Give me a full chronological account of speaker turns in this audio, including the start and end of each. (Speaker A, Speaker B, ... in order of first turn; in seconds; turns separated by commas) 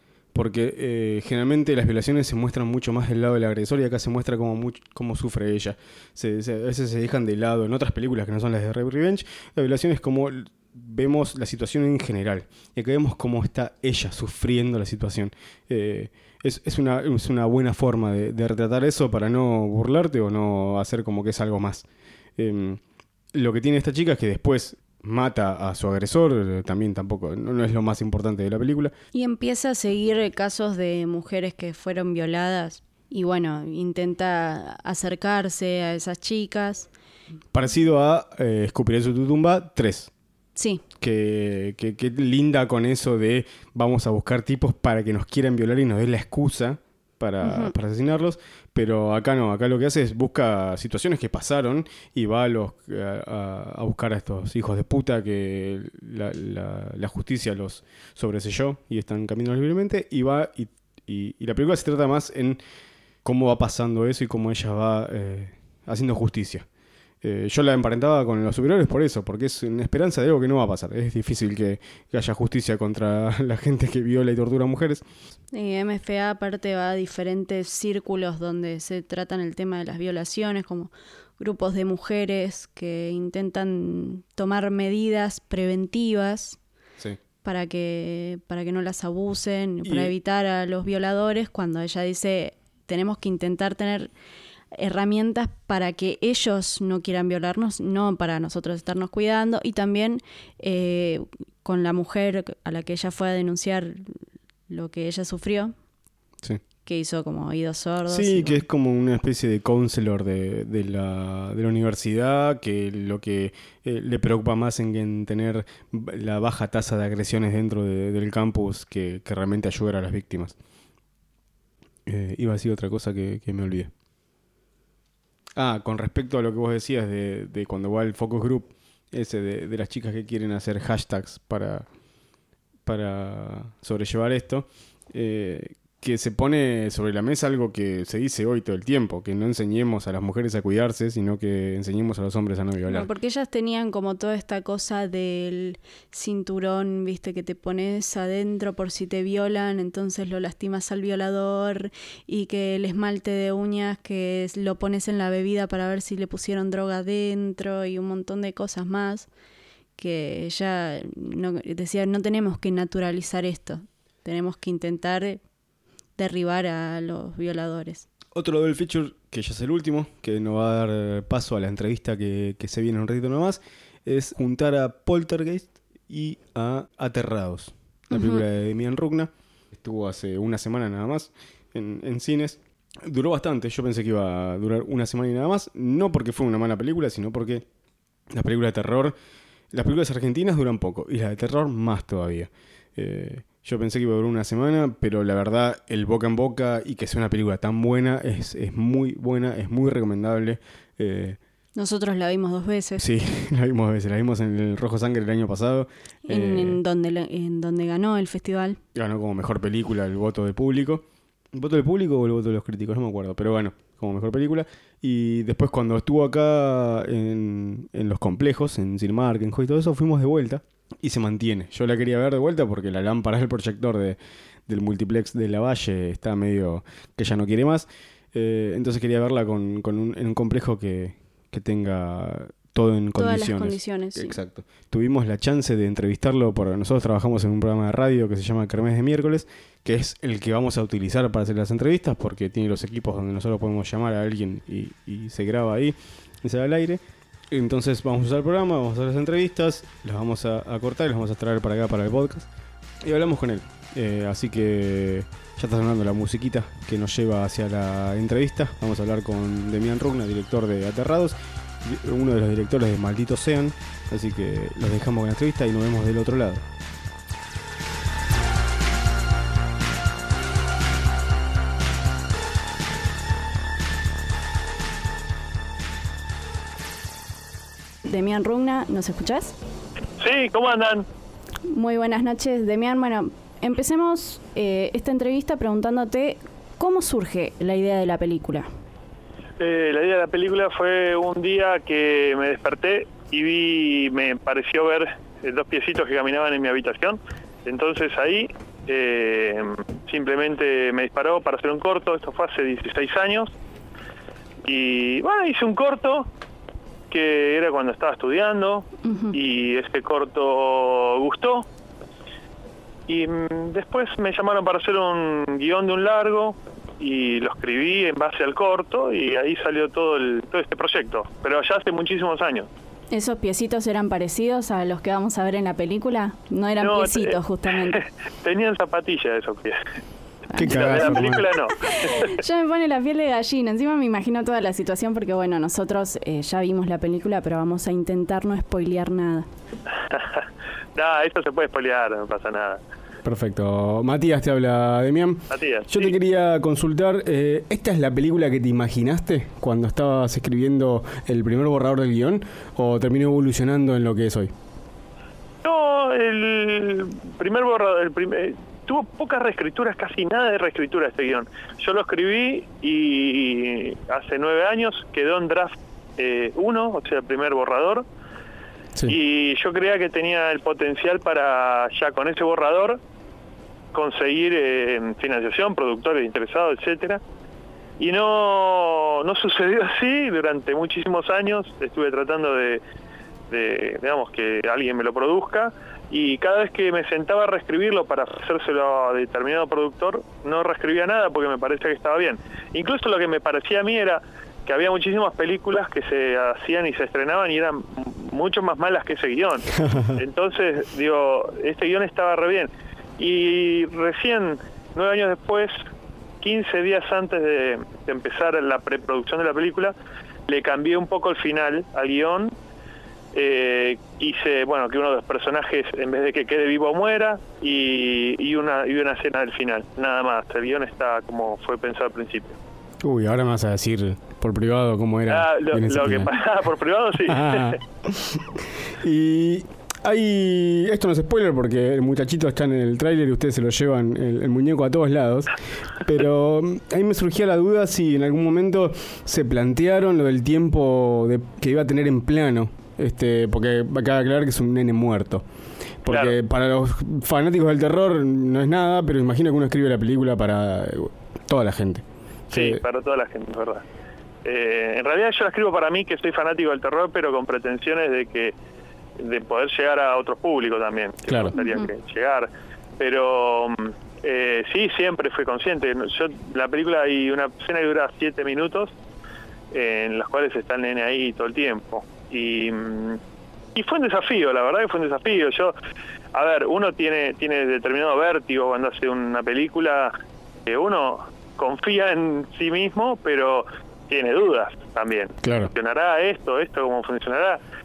Speaker A: 0.3-21.9, Speaker A: 22.4-22.8, Speaker A: 23.3-28.9, Speaker B: 29.1-36.9, Speaker A: 37.5-40.1, Speaker B: 40.5-40.8, Speaker A: 41.0-62.6, Speaker B: 47.4-47.7, Speaker A: 63.2-66.6, Speaker A: 67.2-75.0, Speaker B: 75.5-86.6, Speaker B: 87.4-94.1, Speaker A: 89.8-90.1, Speaker B: 94.7-104.2, Speaker B: 104.7-105.7, Speaker B: 106.8-108.6, Speaker A: 108.1-120.5, Speaker A: 122.0-123.9, Speaker A: 125.5-131.9, Speaker A: 132.8-143.1, Speaker B: 142.9-159.3, Speaker B: 159.9-165.4, Speaker B: 166.2-168.1, Speaker A: 168.3-187.6, Speaker B: 178.1-178.4, Speaker A: 188.3-189.1, Speaker A: 189.7-201.4, Speaker B: 201.7-203.1, Speaker A: 203.0-206.8, Speaker B: 206.2-208.8, Speaker A: 208.9-252.5, Speaker B: 233.2-234.3, Speaker A: 253.0-266.6, Speaker B: 278.0-279.5, Speaker C: 280.2-281.1, Speaker B: 281.7-288.7, Speaker C: 289.6-303.5, Speaker C: 304.6-306.3, Speaker C: 307.1-311.7, Speaker B: 309.0-309.4, Speaker C: 313.1-322.7, Speaker B: 323.1-328.0, Speaker C: 326.8-329.8, Speaker B: 330.5-339.5, Speaker A: 330.5-331.4, Speaker C: 330.6-332.3, Speaker C: 340.1-342.8, Speaker A: 343.2-354.5, Speaker C: 345.5-346.1, Speaker C: 355.6-368.0, Speaker C: 369.1-373.0, Speaker C: 373.9-377.2, Speaker C: 378.0-382.8, Speaker C: 383.5-405.7, Speaker A: 399.8-400.2, Speaker C: 406.4-409.9, Speaker C: 410.5-412.5, Speaker C: 413.3-422.6, Speaker A: 423.0-426.3, Speaker C: 425.3-427.7, Speaker A: 427.2-445.4, Speaker A: 446.0-452.8, Speaker C: 446.1-446.4, Speaker C: 452.5-453.8, Speaker C: 454.4-458.5, Speaker C: 459.2-468.9, Speaker A: 461.3-461.5, Speaker B: 461.6-461.9, Speaker C: 469.7-473.2, Speaker C: 473.7-475.7, Speaker C: 476.3-480.1, Speaker C: 480.6-487.6, Speaker A: 485.4-485.7